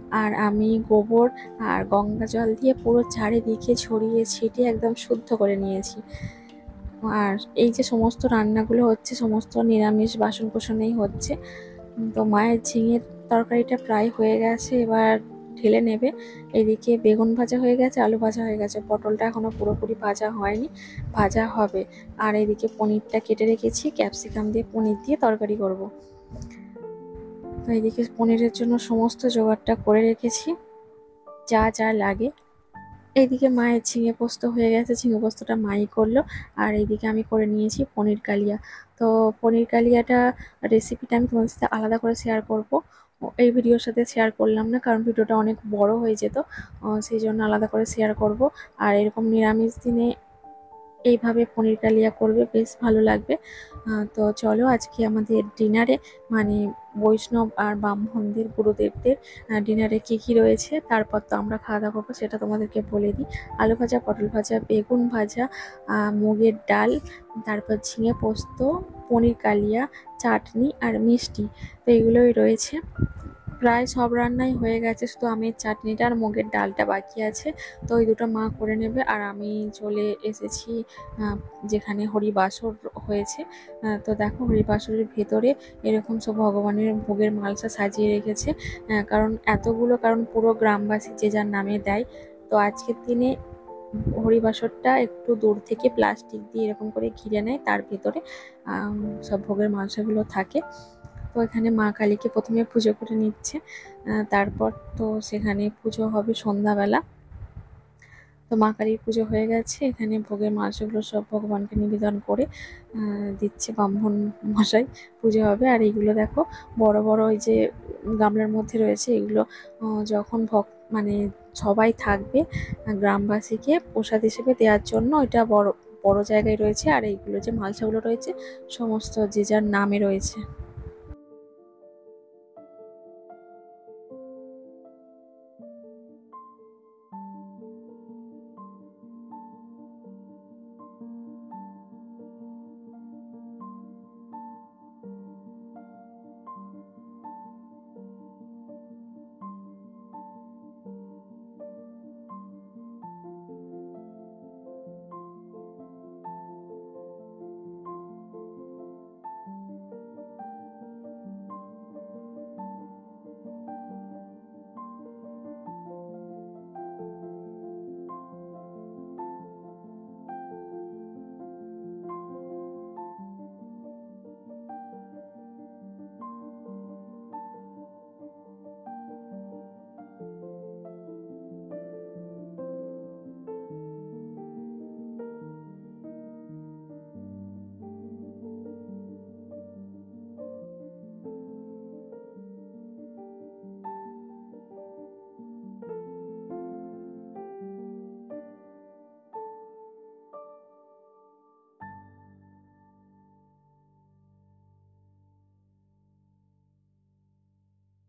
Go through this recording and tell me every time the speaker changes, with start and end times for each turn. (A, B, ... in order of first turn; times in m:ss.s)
0:00.2-0:06.0 A
0:07.1-0:11.4 A
0:12.0-0:25.9 A
0:27.7-0:30.5 A
0:31.5-0:32.3 A
0:33.2-0:42.8 A
0:43.4-0:50.1 A
0:51.1-0:53.4 A
0:53.9-1:06.9 A
1:07.4-1:12.8 A
1:13.6-1:33.3 A
1:34.2-1:40.6 A
1:41.3-1:43.6 A
1:44.1-1:47.0 A
1:48.5-1:57.6 A
1:58.2-2:02.4 A
2:02.9-2:10.4 A